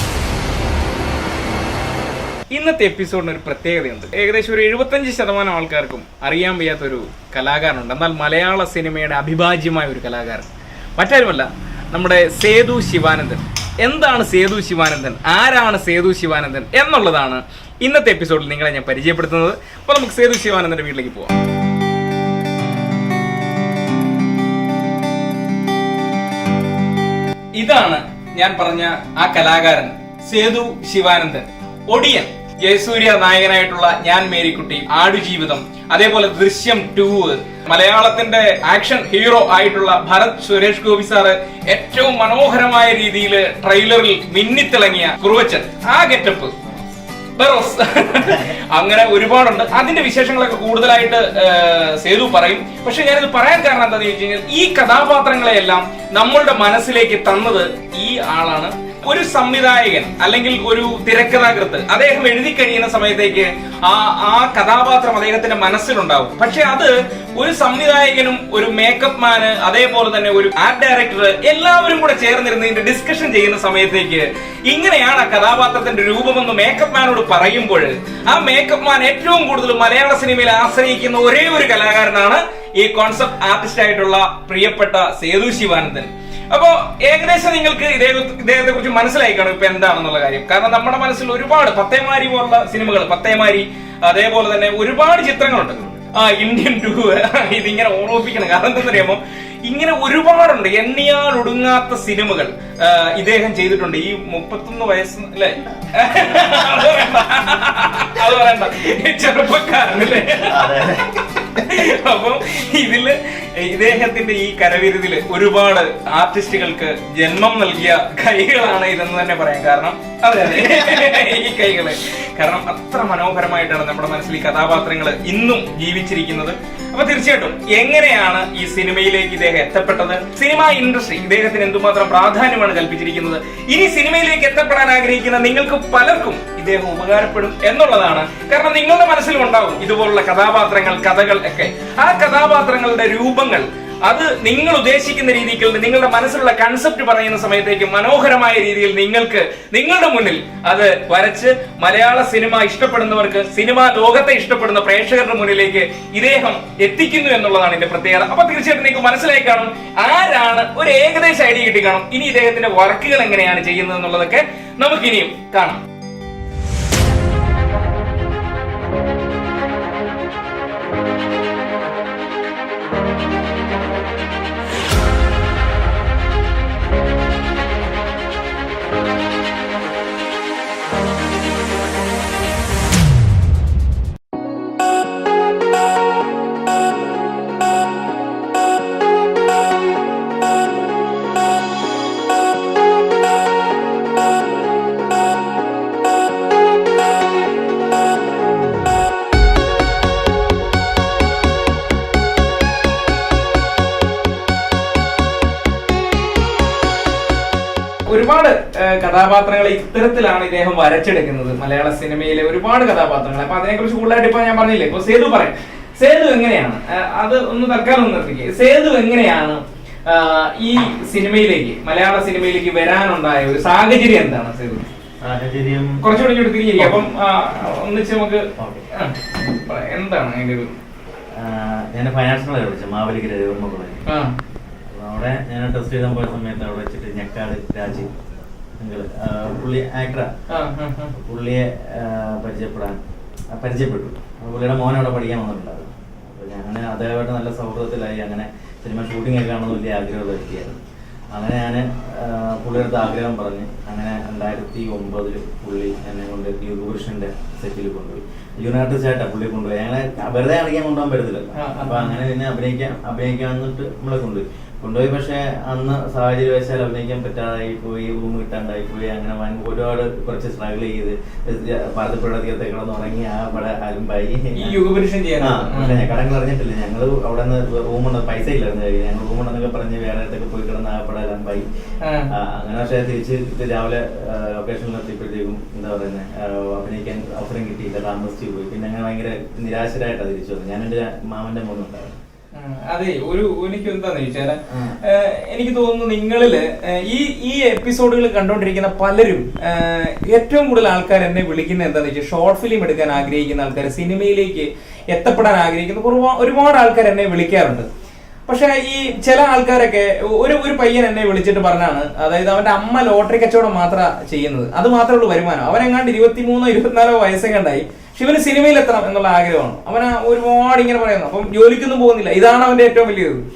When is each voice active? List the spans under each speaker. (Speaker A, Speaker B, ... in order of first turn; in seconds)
Speaker A: 2.5-21.4, 27.6-46.6, 47.4-165.8, 208.1-224.9, 226.0-230.7, 234.1-234.3, 240.5-241.1, 261.6-262.2, 274.5-276.0, 282.0-282.3, 292.5-307.9, 308.5-323.4
Speaker B: 110.5-111.0, 225.2-226.0, 226.8-227.0, 228.6-228.8, 231.3-234.0, 234.9-238.1, 238.8-240.3, 241.1-243.0, 243.5-250.8, 251.3-274.8, 275.4-281.6, 282.4-292.1, 294.7-295.0